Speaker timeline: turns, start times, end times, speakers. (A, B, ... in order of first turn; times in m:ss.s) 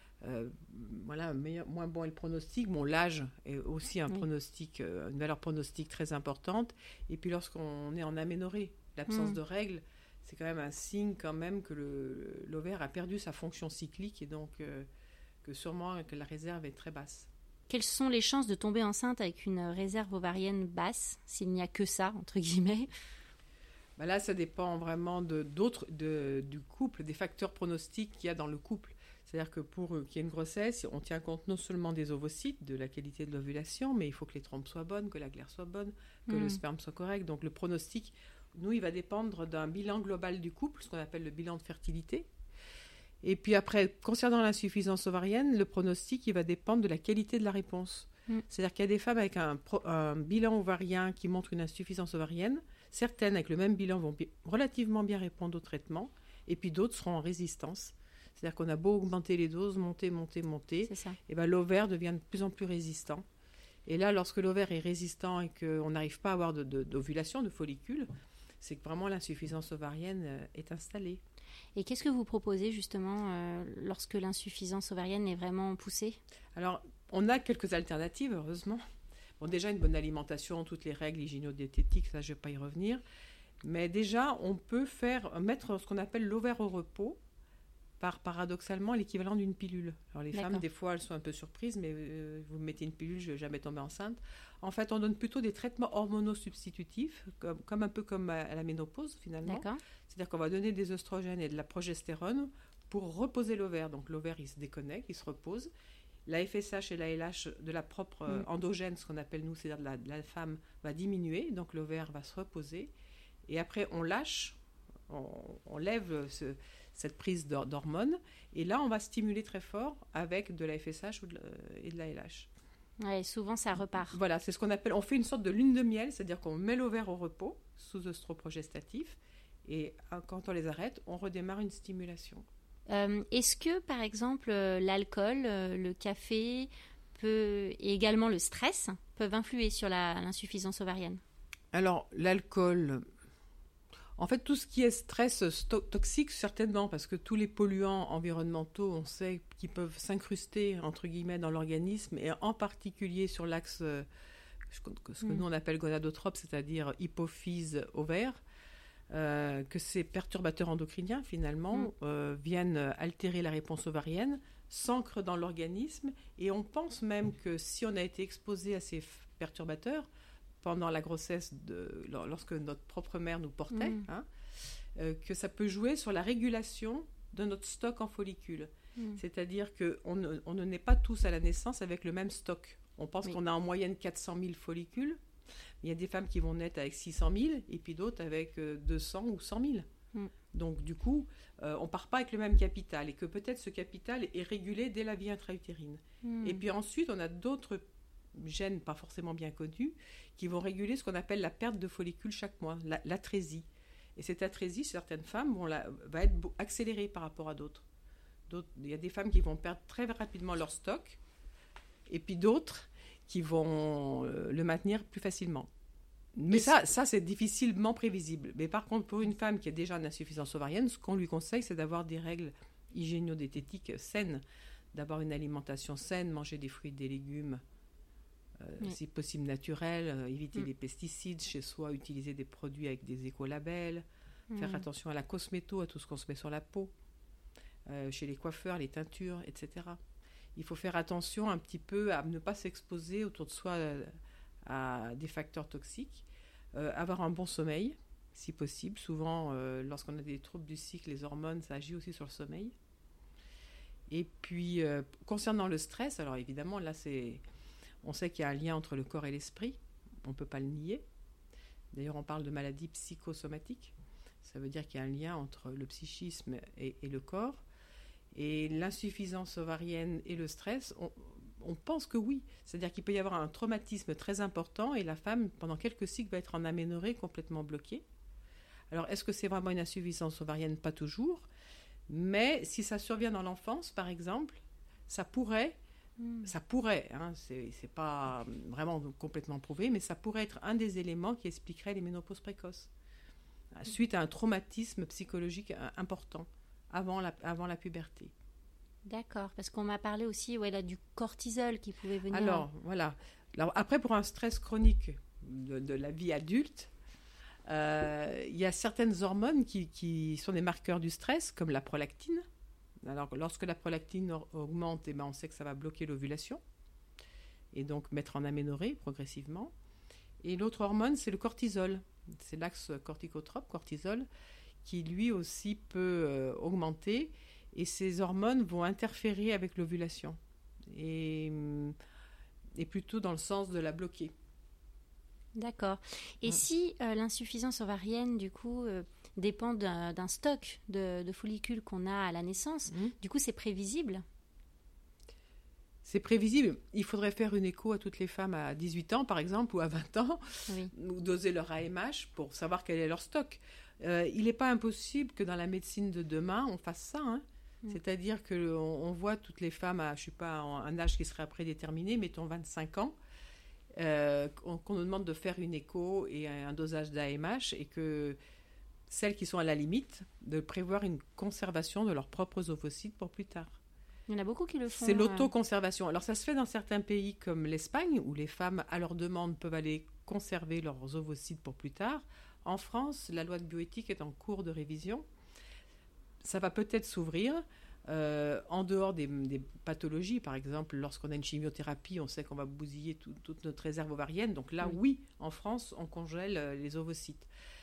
0:00.2-0:14.9 A
0:09.1-0:09.4 B
0:15.4-0:17.3 A
0:17.7-0:22.9 B
0:24.0-0:42.3 A
0:36.3-0:36.6 B
0:43.2-1:03.2 A
1:00.9-1:01.2 B
1:03.8-1:08.1 A
1:08.6-1:11.2 A
1:11.8-1:16.2 B
1:16.5-1:18.8 A
1:19.4-1:23.0 A
1:23.6-1:27.2 A
1:28.0-1:45.7 A
1:30.3-1:30.6 B
1:39.4-1:39.8 B
1:46.2-1:52.9 A
1:53.5-1:54.6 A
1:55.1-2:02.5 A
2:03.0-2:04.2 B
2:04.1-2:12.4 A
2:12.9-2:21.2 B
2:21.7-2:23.0 A
2:24.2-2:34.1 A
2:34.7-2:38.4 A
2:39.1-2:50.1 A
2:50.6-2:54.3 A
2:53.7-2:54.0 B
2:55.0-3:05.2 A
3:05.8-3:09.9 A
3:10.5-3:17.8 A
3:16.2-3:16.6 B
3:18.3-3:23.6 A
3:24.2-3:27.8 A
3:28.5-3:31.2 A
3:32.1-3:35.7 A
3:36.3-3:47.6 A
3:48.6-3:56.9 A
3:54.5-3:54.8 B
3:57.9-4:00.0 A
4:00.6-4:04.1 A
4:04.6-4:12.7 A
4:14.1-4:17.4 A
4:18.0-4:21.0 A
4:21.9-4:27.6 A
4:28.3-4:38.0 A
4:38.9-4:41.5 A
4:42.1-4:45.8 A
4:46.2-4:46.5 B
4:46.4-4:52.9 A
4:53.7-4:58.3 A
4:59.0-5:02.6 B
5:02.3-5:06.9 A
5:07.6-5:12.4 A
5:13.0-5:16.6 A
5:17.7-5:19.7 A
5:20.4-5:24.3 A
5:24.8-5:30.4 A
5:30.9-5:31.9 A
5:32.8-5:34.3 A
5:35.6-5:44.2 B
5:42.9-5:43.1 A
5:46.0-6:03.1 A
6:04.0-6:08.4 A
6:09.1-6:13.8 A
6:14.3-6:15.5 B
6:14.9-6:25.2 A
6:26.4-6:37.5 A